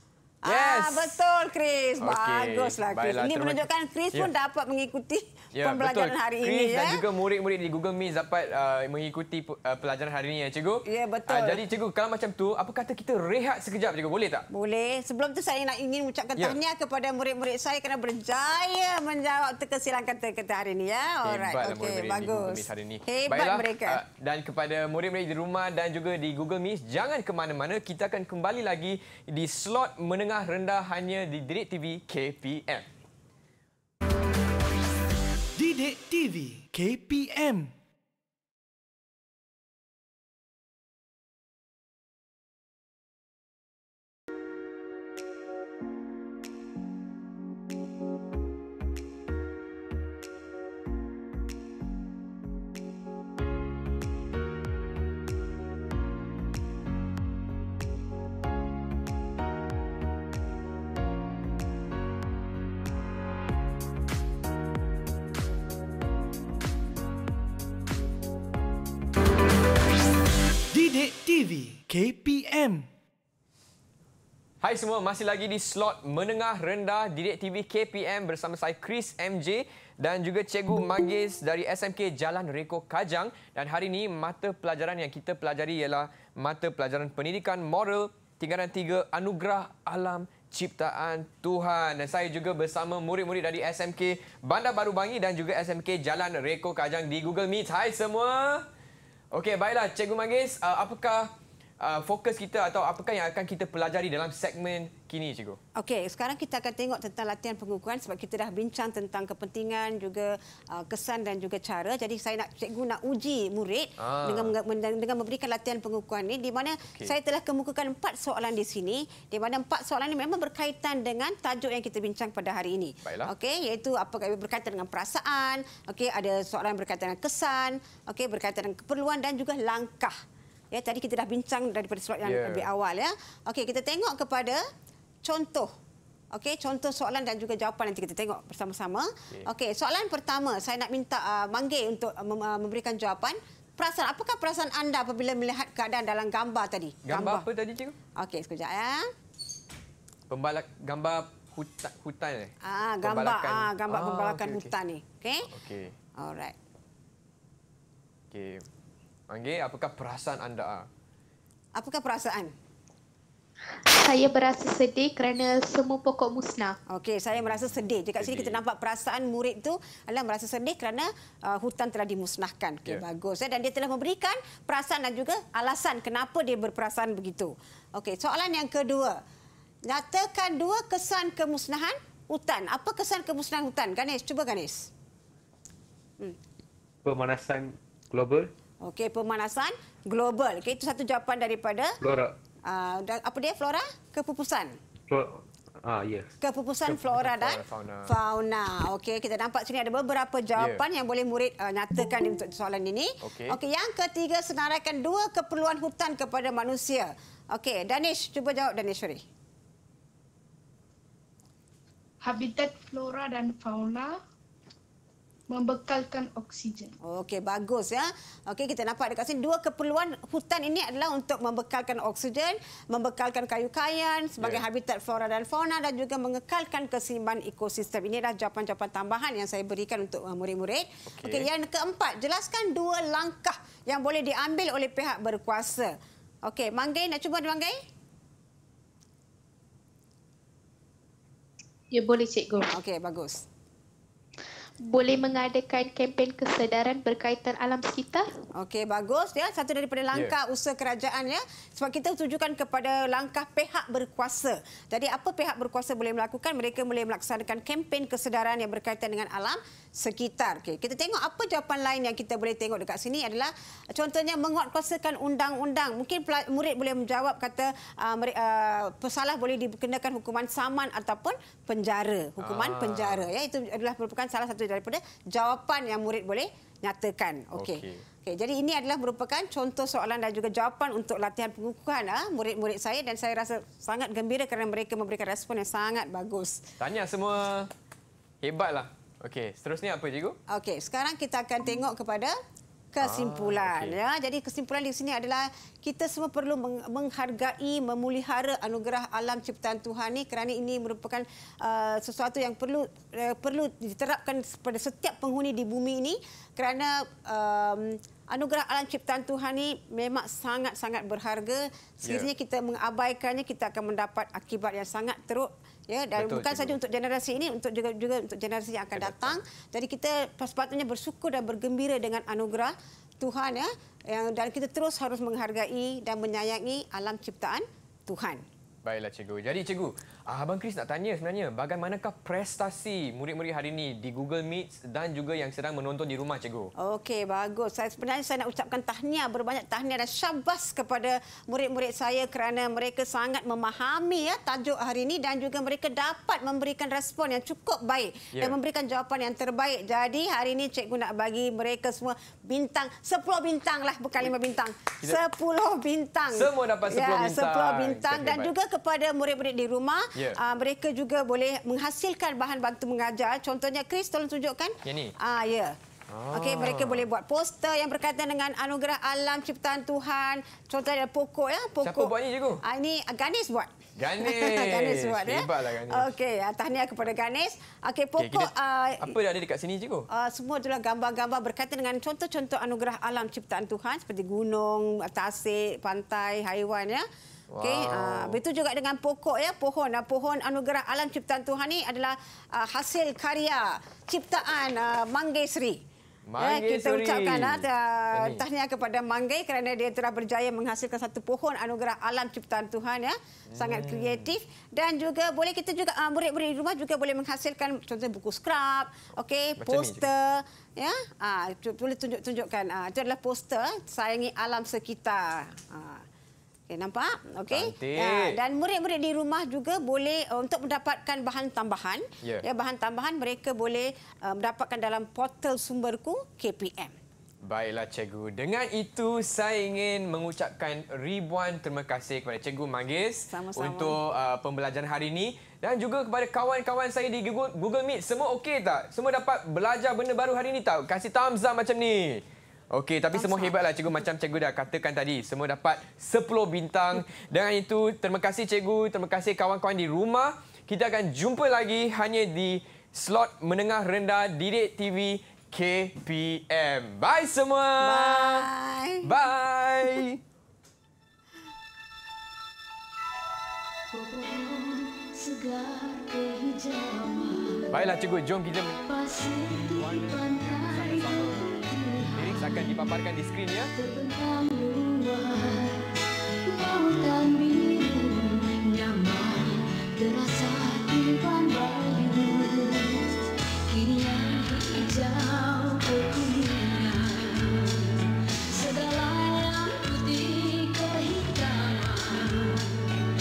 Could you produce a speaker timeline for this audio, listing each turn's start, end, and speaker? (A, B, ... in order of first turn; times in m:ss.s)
0:00.4-0:07.0 A
0:00.4-0:01.1 B
0:02.0-0:04.3 B
0:05.5-0:14.4 B
0:10.8-0:11.6 A
0:14.5-0:24.0 A
0:21.2-0:32.8 B
0:35.6-0:37.7 C
1:10.7-1:12.9 C
1:14.6-1:38.6 B
1:39.3-1:45.6 B
1:45.8-2:10.2 A
1:54.0-1:54.5 B
2:03.0-2:03.3 B
2:10.7-2:14.6 A
2:12.2-2:12.6 B
2:15.2-2:15.7 A
2:16.3-2:27.4 A
2:27.0-2:27.9 B
2:28.2-2:29.1 A
2:30.3-2:34.7 B
2:32.6-2:35.4 A
2:35.5-2:35.9 B
2:36.2-2:36.5 A
2:38.3-2:38.6 B
2:39.3-2:40.9 B
2:41.8-2:42.5 A
2:43.8-2:46.8 D
2:46.9-2:59.2 A
2:47.4-2:48.6 B
2:59.9-3:04.9 A
3:07.0-3:08.5 E
3:08.8-3:12.0 A
3:12.0-3:12.3 E
3:12.6-3:14.8 A
3:15.1-3:16.3 E
3:16.4-3:29.2 A
3:16.9-3:18.1 B
3:20.6-3:20.8 B
3:23.2-3:23.6 B
3:32.2-3:34.2 F
3:35.5-3:36.9 F
3:37.0-3:57.8 A
3:51.1-3:51.5 B
4:01.9-4:02.7 D
4:02.7-4:03.4 A
4:04.8-4:08.3 D
4:08.5-4:46.6 A
4:32.4-4:33.3 B
4:37.5-4:38.0 B
4:46.8-4:47.7 B
4:48.4-4:50.4 B
4:50.5-4:52.4 A
4:52.9-5:28.4 A
4:53.0-4:54.0 B
5:16.2-5:16.8 B
5:18.9-5:19.4 B
5:28.8-5:36.7 B
5:36.8-6:05.8 A
5:56.3-5:58.5 B
6:04.8-6:05.1 B
6:06.1-6:07.1 B
6:06.3-6:19.1 A
6:11.8-6:12.6 B
6:14.0-6:16.1 B
6:18.2-6:18.5 B
6:19.0-6:20.1 B
6:20.1-6:27.0 A
6:27.5-6:28.4 B
6:27.6-6:35.8 A
6:36.3-6:38.4 B
6:36.4-6:56.0 A
6:43.5-6:44.4 B
6:49.6-6:50.1 B
6:56.7-7:06.9 A
6:57.5-6:58.4 B
7:07.4-7:38.5 B
7:13.3-7:14.0 A
7:23.1-7:23.6 A
7:37.8-7:39.0 A
7:39.0-7:40.2 B
7:43.9-7:47.8 G
7:47.7-7:48.8 B
7:48.8-7:52.8 G
7:49.6-7:53.7 B
7:53.7-8:03.1 G
8:03.7-8:12.9 G